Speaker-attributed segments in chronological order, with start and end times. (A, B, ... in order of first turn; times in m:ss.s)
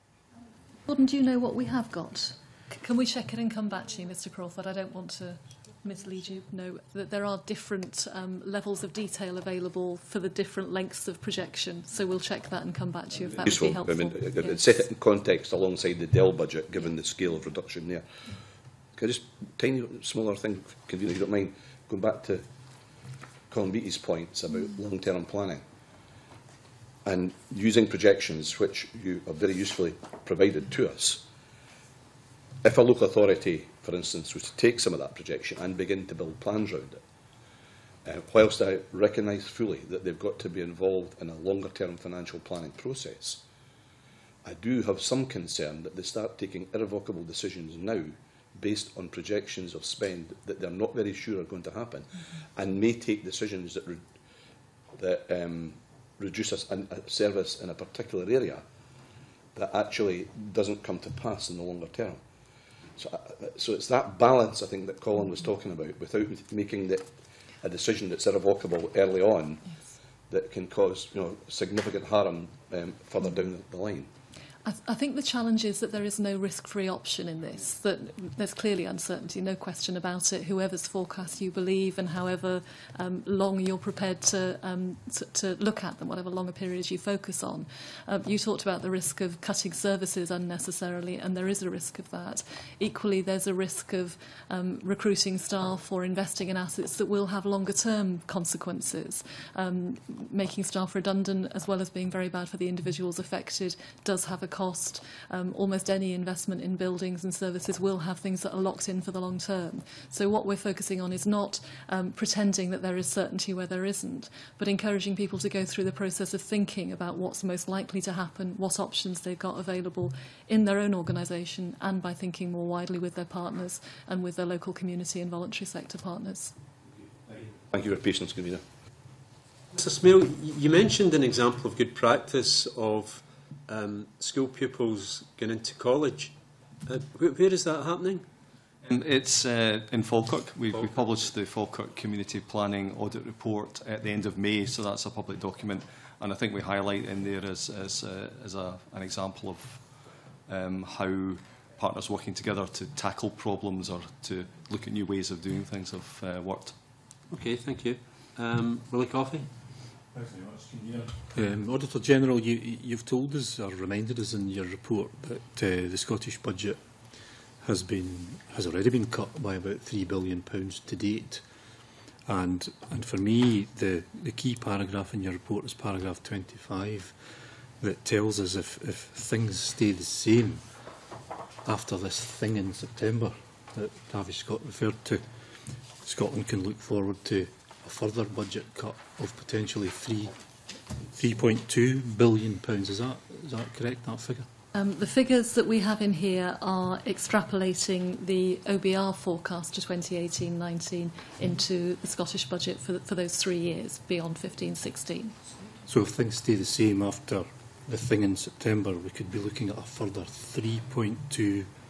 0:00.8-0:14.6 A
0:13.4-0:18.0 B
0:19.0-0:22.4 B
0:23.5-0:25.6 B
0:27.0-0:31.2 B
0:32.6-0:37.0 B
0:38.0-0:43.4 B
0:44.4-0:54.1 B
0:55.0-0:58.6 B
0:59.5-1:02.2 B
1:03.0-1:07.1 B
1:07.6-1:09.7 B
1:10.3-1:14.1 B
1:14.6-2:06.5 A
2:07.6-2:08.6 B
2:09.7-2:16.3 C
2:16.8-2:18.2 C
2:18.8-2:29.8 D
2:20.7-2:21.1 C
2:30.5-2:36.8 D
2:37.3-2:39.5 C
2:40.1-2:46.8 E
2:47.6-2:51.5 E
2:52.2-2:57.2 E
2:57.8-3:00.6 E
3:01.6-3:05.3 E
3:06.0-3:10.3 E
3:11.0-3:14.4 E
3:14.7-3:25.3 A
3:25.8-3:31.7 E